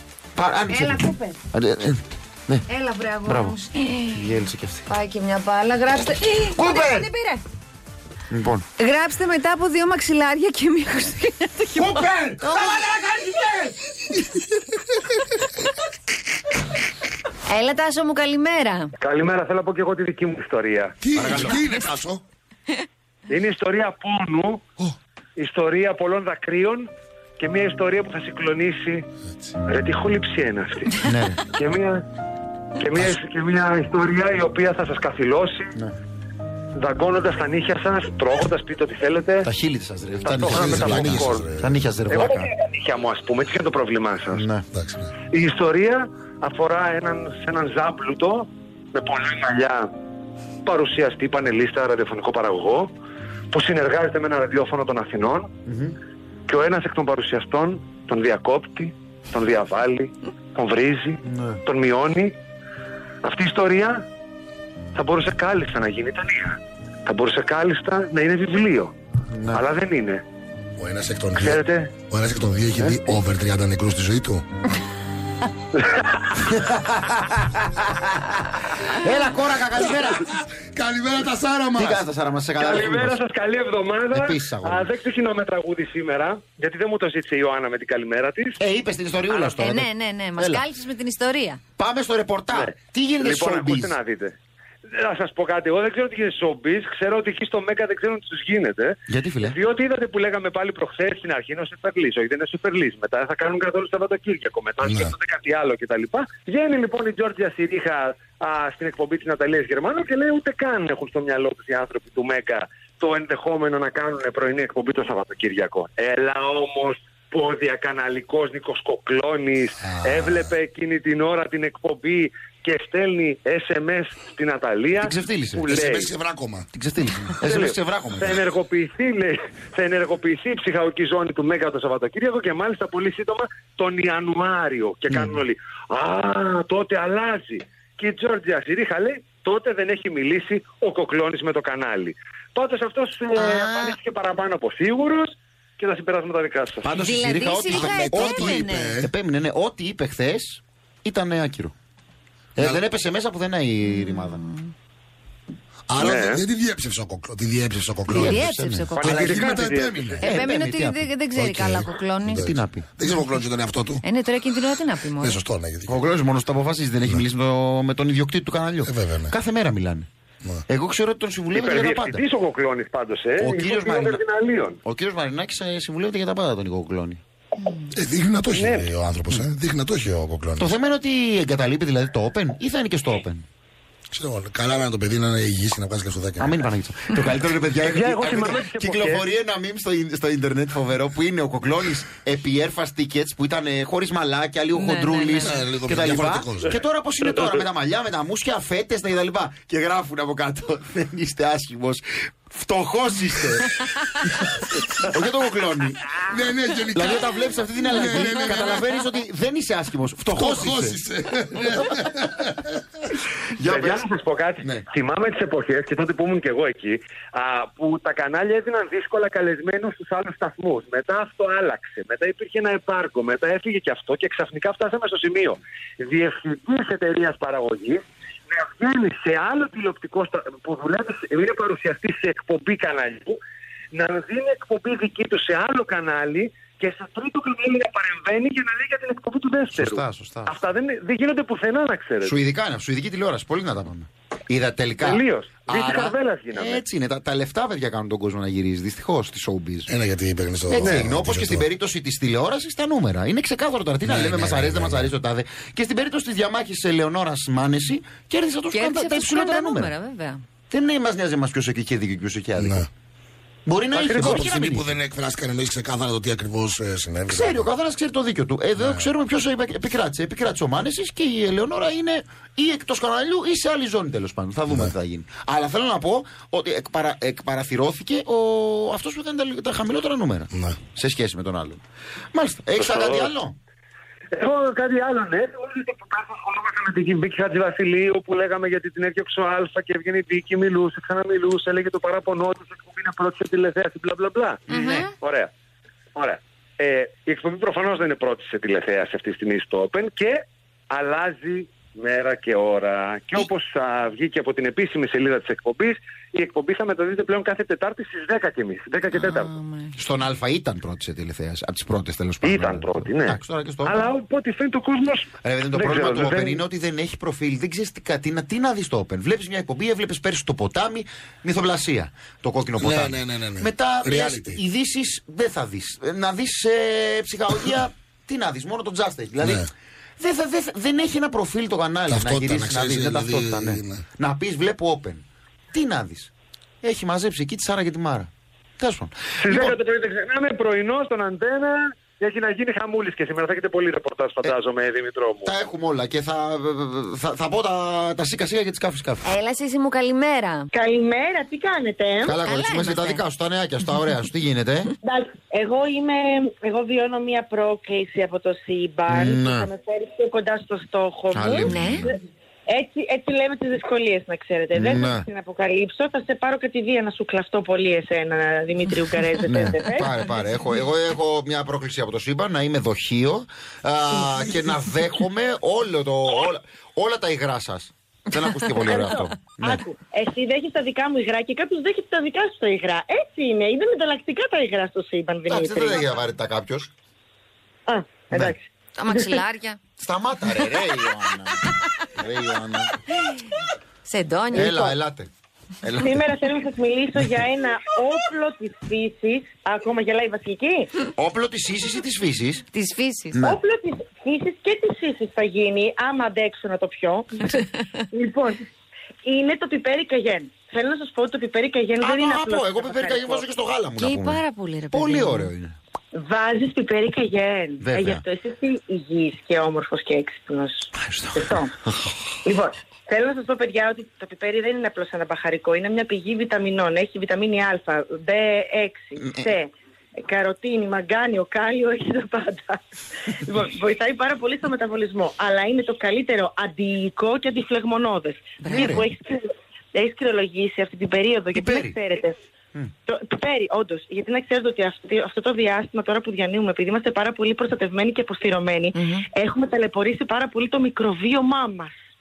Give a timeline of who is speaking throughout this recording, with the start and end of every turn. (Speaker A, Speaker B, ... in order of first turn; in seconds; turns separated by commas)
Speaker A: 0.3-2.7, Speaker B: 0.7-1.4, Speaker B: 2.7-4.2, Speaker A: 3.2-3.6, Speaker A: 4.1-4.9, Speaker B: 4.9-7.4, Speaker A: 6.5-7.1, Speaker A: 8.3-8.7, Speaker B: 8.8-13.2, Speaker A: 11.8-13.7, Speaker B: 17.5-18.9, Speaker C: 19.0-21.5, Speaker D: 21.0-22.2, Speaker A: 21.1-21.6, Speaker C: 23.3-24.6, Speaker C: 25.4-29.1, Speaker C: 29.7-31.0, Speaker A: 31.0-31.4, Speaker C: 31.5-32.0, Speaker C: 32.8-35.7, Speaker C: 36.8-39.5, Speaker A: 39.4-42.5, Speaker C: 40.2-41.5, Speaker D: 40.5-41.6, Speaker C: 42.1-44.5, Speaker A: 44.3-44.6, Speaker D: 44.7-45.1, Speaker C: 45.3-49.9, Speaker C: 50.6-52.9, Speaker C: 53.5-55.5, Speaker A: 55.7-56.0, Speaker C: 56.5-62.3, Speaker A: 61.2-61.6, Speaker C: 63.2-64.0, Speaker C: 65.0-68.9, Speaker A: 69.3-69.6, Speaker C: 69.5-70.2, Speaker D: 70.8-74.4, Speaker C: 71.4-71.9, Speaker C: 75.8-76.4, Speaker A: 76.5-80.3, Speaker D: 80.3-82.0, Speaker A: 81.8-83.2, Speaker C: 82.6-88.6, Speaker A: 84.1-84.9, Speaker A: 88.6-90.7, Speaker C: 89.3-89.6, Speaker B: 89.6-91.6, Speaker A: 91.8-94.0, Speaker C: 92.5-94.3, Speaker C: 94.9-126.1, Speaker A: 99.1-99.6, Speaker D: 104.9-105.1, Speaker D: 119.9-120.3, Speaker A: 125.0-125.7, Speaker D: 125.7-126.7, Speaker A: 126.7-128.4, Speaker C: 127.4-146.9, Speaker A: 135.1-135.4, Speaker B: 143.4-144.0, Speaker A: 146.8-151.7, Speaker B: 146.9-149.0, Speaker D: 147.7-149.1, Speaker A: 152.6-154.4, Speaker B: 153.9-154.7, Speaker D: 155.9-158.4, Speaker C: 156.0-156.4, Speaker A: 158.1-159.6, Speaker B: 158.1-159.4, Speaker C: 158.9-160.3, Speaker D: 159.0-160.2, Speaker A: 160.2-162.9, Speaker B: 160.2-162.6, Speaker D: 161.3-161.7, Speaker D: 162.3-164.0, Speaker B: 164.0-165.4, Speaker D: 165.2-165.9, Speaker A: 165.9-170.1, Speaker D: 168.8-169.3, Speaker A: 170.7-172.2, Speaker C: 171.5-174.8, Speaker A: 173.4-174.2, Speaker A: 174.8-177.2, Speaker D: 177.9-180.7, Speaker C: 178.5-178.9, Speaker A: 180.6-183.4, Speaker D: 184.1-186.6, Speaker A: 186.4-203.7, Speaker C: 187.8-189.3, Speaker B: 194.8-195.6, Speaker D: 195.5-196.8, Speaker C: 197.2-197.6, Speaker A: 205.0-206.1, Speaker D: 206.3-208.8, Speaker A: 206.9-211.0, Speaker D: 210.3-212.5, Speaker A: 213.6-214.0, Speaker C: 213.6-233.4, Speaker C: 233.9-242.4, Speaker A: 239.8-240.6, Speaker A: 242.2-249.9, Speaker C: 245.0-246.8, Speaker D: 249.9-251.7, Speaker A: 250.7-259.9, Speaker D: 254.0-255.1, Speaker B: 258.7-260.4, Speaker A: 260.7-262.9, Speaker D: 262.6-262.9, Speaker A: 263.7-265.0, Speaker C: 263.9-264.5, Speaker D: 264.2-267.7, Speaker A: 267.3-281.8, Speaker D: 268.8-269.1, Speaker A: 282.3-283.6, Speaker C: 282.8-283.3, Speaker C: 284.3-294.6, Speaker A: 294.7-295.1, Speaker B: 294.7-295.1, Speaker C: 295.1-295.5, Speaker C: 296.1-309.5, Speaker B: 309.1-310.0, Speaker A: 310.0-314.1, Speaker C: 312.4-316.6, Speaker A: 315.4-336.3, Speaker D: 322.8-324.6, Speaker D: 332.1-334.0, Speaker A: 336.8-339.8, Speaker C: 339.4-345.6, Speaker A: 345.4-349.3, Speaker B: 349.2-350.7, Speaker E: 350.7-352.4, Speaker A: 352.2-354.9, Speaker B: 352.4-353.2, Speaker E: 355.0-362.1, Speaker A: 359.1-359.7, Speaker A: 361.3-362.1, Speaker B: 361.7-362.1, Speaker E: 362.7-370.1, Speaker A: 364.8-365.2, Speaker A: 369.5-379.8, Speaker E: 378.9-386.1, Speaker A: 385.5-386.9, Speaker E: 387.9-389.4, Speaker B: 389.0-389.8, Speaker A: 390.0-392.9, Speaker B: 394.0-394.8, Speaker A: 394.5-395.3, Speaker E: 394.6-394.9, Speaker A: 395.8-396.2, Speaker E: 396.0-400.9, Speaker A: 401.1-402.6, Speaker B: 402.7-403.4, Speaker A: 403.3-403.6, Speaker E: 403.4-408.6, Speaker E: 409.2-413.5, Speaker A: 412.0-415.8, Speaker B: 414.0-415.5, Speaker E: 416.1-421.7, Speaker A: 417.8-418.2, Speaker A: 421.0-421.6, Speaker E: 422.4-429.7, Speaker A: 429.2-429.5, Speaker E: 430.2-432.8, Speaker E: 433.4-442.4, Speaker B: 438.6-439.0, Speaker A: 438.7-439.0, Speaker A: 441.5-442.0, Speaker E: 443.1-451.9, Speaker B: 448.9-449.2